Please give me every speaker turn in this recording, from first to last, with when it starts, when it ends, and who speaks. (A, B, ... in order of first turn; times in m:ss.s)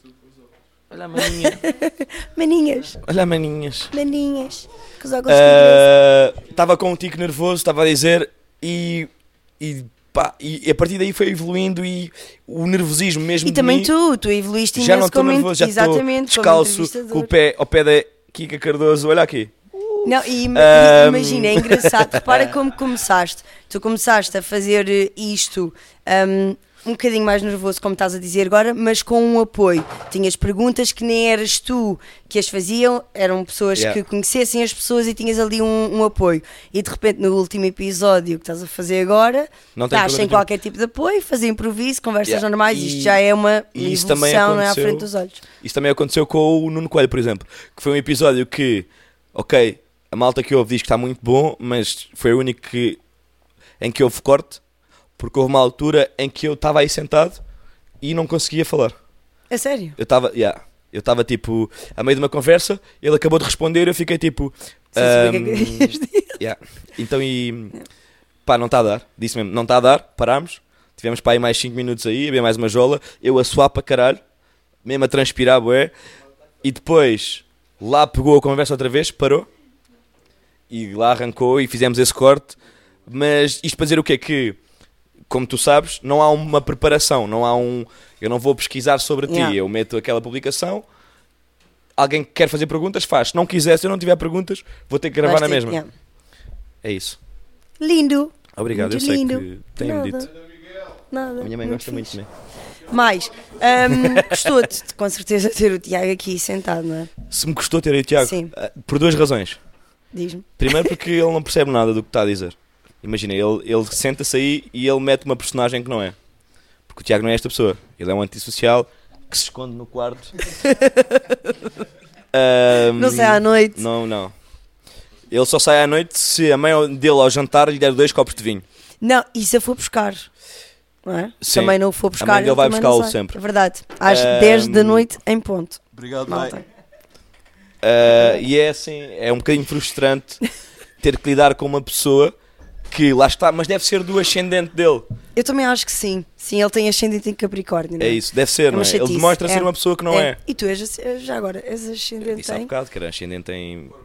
0:00.9-0:01.6 A
0:01.2-0:03.0 B
0:03.0-0:03.9 A
0:03.9-0:05.9 B
0:05.3-0:13.9 A
0:13.4-0:17.3 B
0:14.8-0:22.5 A
0:20.0-0:45.4 B
0:33.8-0:34.0 A
0:39.8-0:40.5 A
0:42.3-0:43.2 A
0:43.7-0:45.1 A
0:45.6-0:53.0 A
0:53.8-0:54.6 A
0:55.2-0:57.4 A
0:58.0-0:59.0 A
0:59.5-1:00.0 B
1:00.0-1:07.7 A
1:05.0-1:06.4 B
1:08.5-1:14.2 A
1:14.8-1:15.9 A
1:16.6-1:19.5 A
1:20.7-1:24.6 A
1:25.3-1:30.8 A
1:29.3-1:29.6 B
1:32.0-1:35.8 A
1:35.2-1:35.9 B
1:36.8-1:37.2 A
1:37.8-1:40.3 B
1:38.6-1:40.3 A
1:41.1-1:42.2 B
1:41.4-1:42.3 A
1:42.9-1:47.1 B
1:43.9-1:44.5 A
1:47.3-1:49.6 A
1:48.2-1:48.5 B
1:50.1-1:51.0 B
1:50.6-1:56.2 A
1:56.9-2:00.4 A
2:00.7-2:01.2 B
2:02.3-2:04.4 A
2:03.0-2:03.8 B
2:05.3-2:08.6 A
2:09.0-2:10.3 B
2:11.0-2:16.6 B
2:11.4-2:13.4 A
2:14.0-2:15.1 A
2:16.0-2:16.5 A
2:17.8-2:20.4 A
2:21.0-2:22.4 A
2:22.9-2:25.1 A
2:25.4-2:32.7 B
2:28.0-2:30.4 A
2:32.2-2:34.0 A